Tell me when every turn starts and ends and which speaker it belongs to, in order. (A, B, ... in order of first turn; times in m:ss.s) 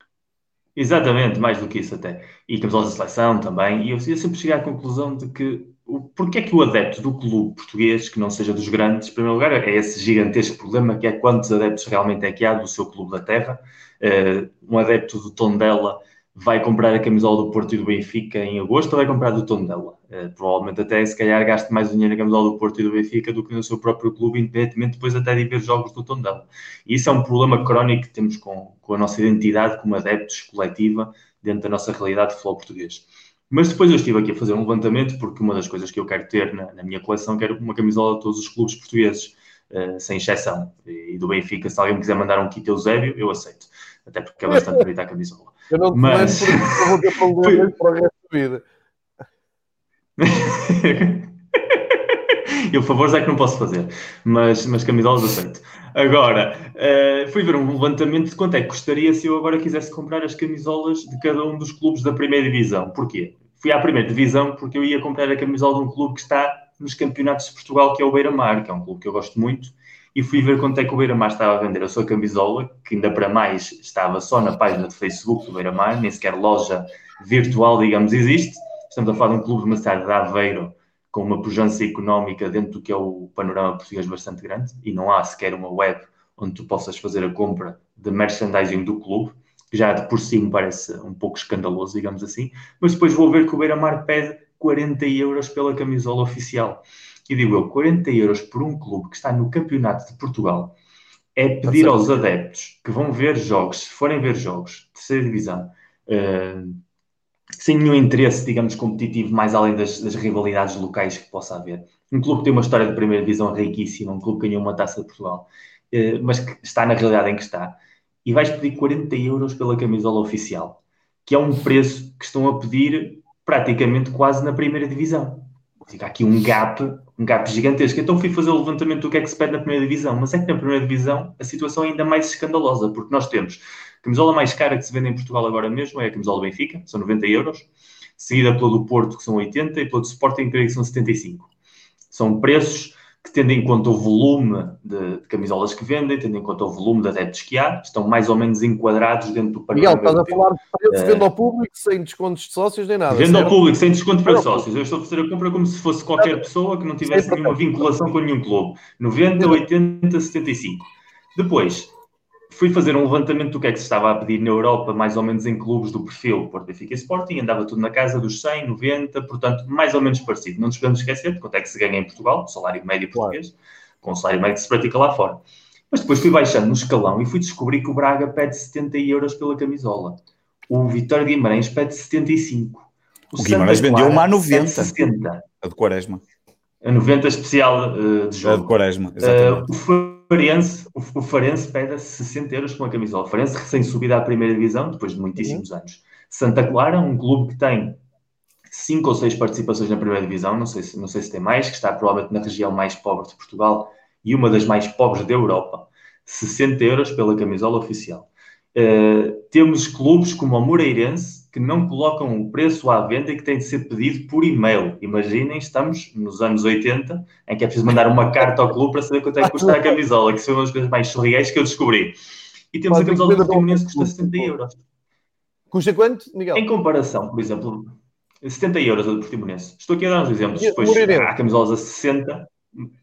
0:00.8-0:47.7 A
0:44.5-0:44.8 B
0:45.7-0:48.6 B
0:50.2-1:40.7 A
1:41.4-1:46.8 A
1:41.6-1:42.2 B
1:47.6-2:21.5 A
2:22.1-2:31.3 A
2:29.7-2:33.5 B
2:33.1-2:41.9 A
2:34.2-2:34.6 B
2:36.2-2:36.4 B
2:37.1-2:37.8 B
2:42.5-3:05.4 A
3:03.4-3:04.9 C
3:05.6-3:06.2 C
3:06.8-3:18.0 A
3:08.4-3:09.7 C
3:18.7-3:42.2 A
3:39.4-3:39.9 B
3:42.7-3:44.8 A
3:42.9-3:44.5 B
3:45.7-3:46.6 B
3:46.5-3:52.5 A
3:50.6-3:51.3 B